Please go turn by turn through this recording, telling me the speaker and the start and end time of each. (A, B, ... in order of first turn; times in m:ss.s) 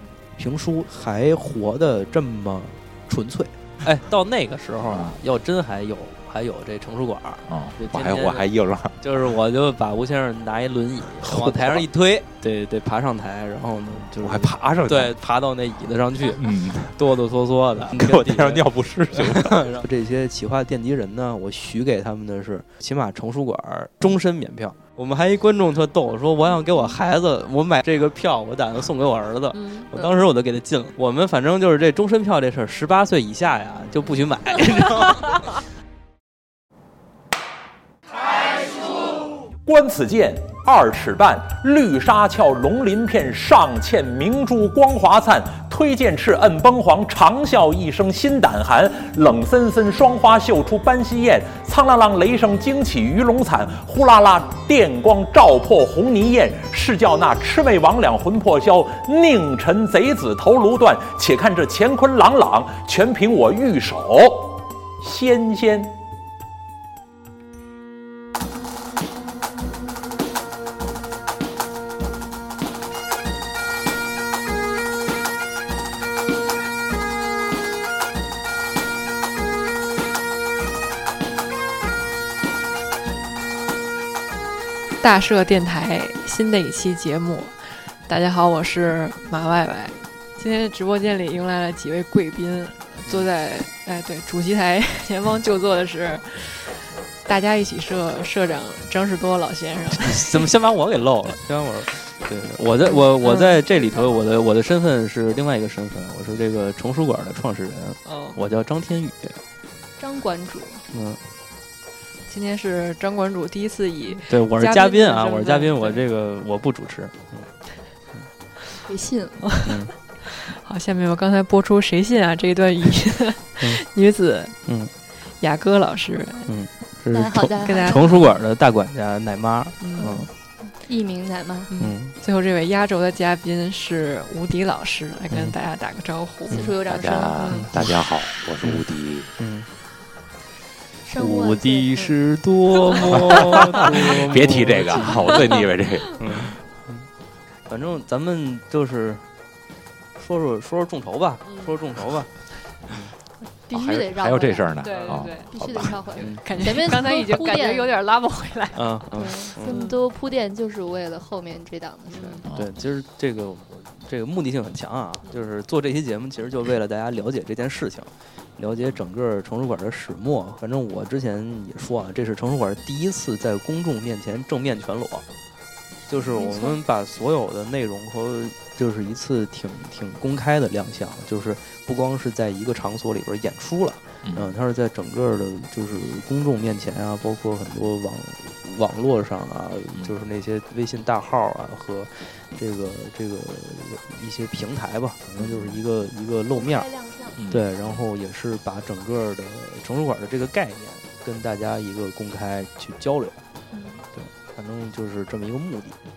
0:00.4-0:08.5 A
0:04.9-0:05.2 B
0:07.5-0:09.0 B
0:09.0-0:35.4 A
0:11.2-0:11.9 B
0:14.1-0:15.2 B
0:16.2-0:17.1 B
0:17.9-0:19.8 B
0:29.5-0:30.1 C
0:38.7-1:06.0 D
1:25.0-1:40.5 C
1:40.0-1:49.4 A
1:42.9-1:43.6 C
1:48.1-1:48.4 C
1:50.0-1:50.8 E
1:50.9-1:51.2 A
1:52.3-1:56.0 C
1:54.3-1:57.5 A
1:58.9-1:59.6 E
1:59.5-2:04.6 C
1:59.6-1:59.9 A
2:03.6-2:03.8 A
2:04.6-2:04.9 A
2:05.4-2:06.5 C
2:06.5-2:10.3 A
2:07.1-2:08.1 E
2:07.6-2:08.2 C
2:09.8-2:10.2 C
2:10.0-2:11.7 E
2:11.7-2:16.6 C
2:11.8-2:12.1 A
2:15.3-2:15.6 A
2:16.5-2:17.6 E
2:16.8-2:19.4 B
2:17.4-2:17.7 C
2:17.5-2:18.1 A
2:19.4-2:19.7 A
2:21.0-2:22.1 E
2:21.2-2:25.2 A
2:23.1-2:26.6 B
2:25.0-2:25.7 C
2:26.2-2:27.1 A
2:27.7-2:29.2 A
2:30.2-2:32.3 A
2:31.5-2:31.8 C
2:32.9-2:33.1 A
2:33.7-2:38.0 E
2:33.7-2:36.0 B
2:34.8-2:40.0 C
2:36.2-2:36.4 A
2:38.8-2:39.8 A
2:39.1-2:42.4 E
2:42.1-2:42.5 C
2:42.1-2:55.2 A
2:42.4-2:42.7 B
2:56.1-3:16.9 A
2:56.2-2:56.8 E
3:04.2-3:04.5 B
3:16.5-3:17.4 E
3:17.4-3:18.0 B
3:17.5-3:23.4 A
3:23.7-3:24.0 E
3:24.2-3:26.0 A